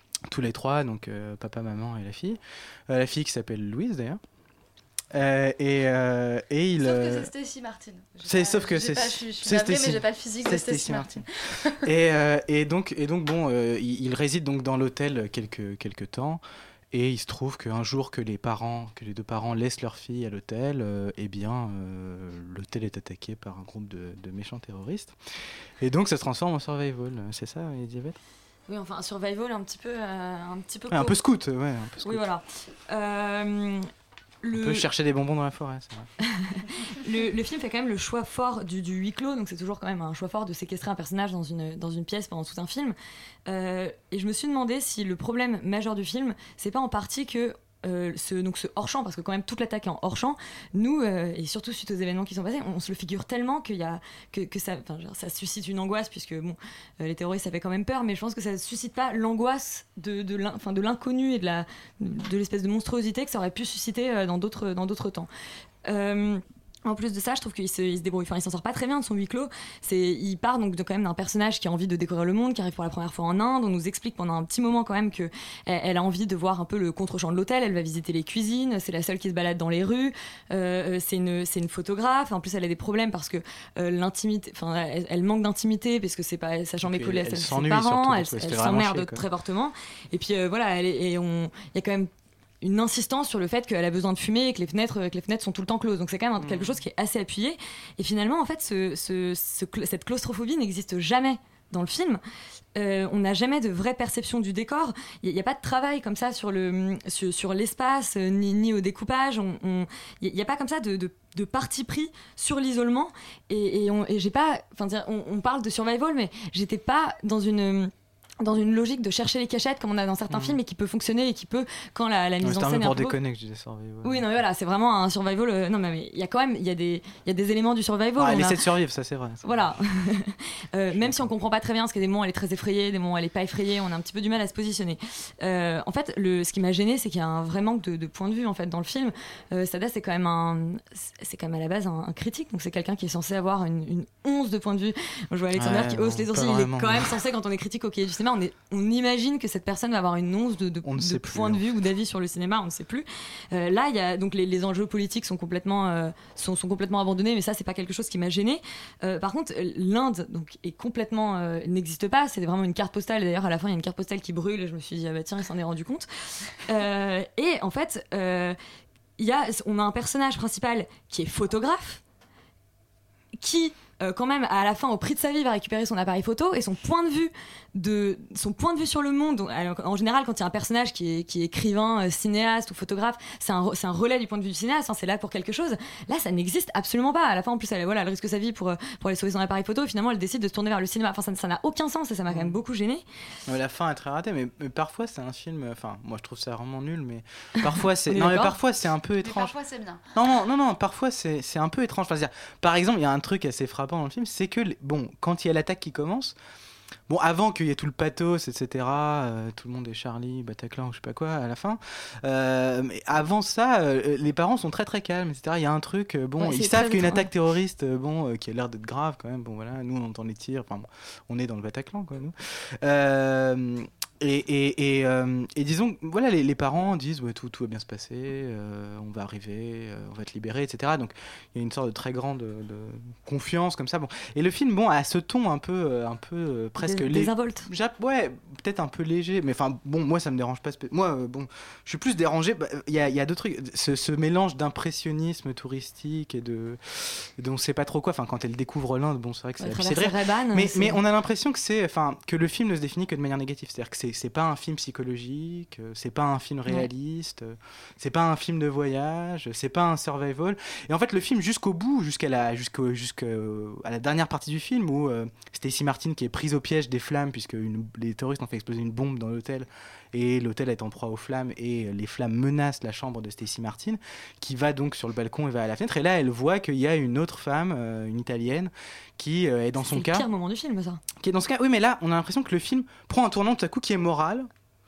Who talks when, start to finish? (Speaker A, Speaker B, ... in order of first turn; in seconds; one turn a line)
Speaker A: 0.3-4.2
Speaker A: 5.1-7.3
Speaker B: 6.8-11.8
Speaker A: 8.2-11.3
Speaker A: 11.8-25.2
Speaker A: 25.8-28.2
Speaker C: 28.7-31.1
Speaker A: 30.9-32.3
Speaker C: 32.0-33.9
Speaker C: 34.4-34.9
Speaker A: 34.5-36.1
Speaker C: 36.2-65.3
Speaker C: 65.8-92.1
Speaker A: 86.8-89.2
Speaker C: 92.6-102.2
Speaker A: 96.4-96.8
Speaker C: 102.8-123.2
Speaker A: 120.3-120.6
Speaker A: 122.4-124.3
Speaker C: 124.0-128.6
Speaker A: 128.2-129.7
Speaker C: 129.4-168.6
Speaker A: 130.9-131.3
Speaker A: 145.6-147.2
Speaker A: 150.8-151.6
Speaker C: 169.2-172.0
Speaker C: 173.4-193.0
Speaker A: 192.3-192.6
Speaker A: 193.5-199.5
Speaker C: 198.1-198.6
Speaker B: 199.2-200.0
Speaker A: 200.1-206.4
Speaker A: 207.1-280.3
Speaker C: 216.4-217.3
Speaker C: 236.8-237.7
Speaker C: 249.6-251.0
Speaker C: 279.8-281.0
Speaker A: 281.2-284.5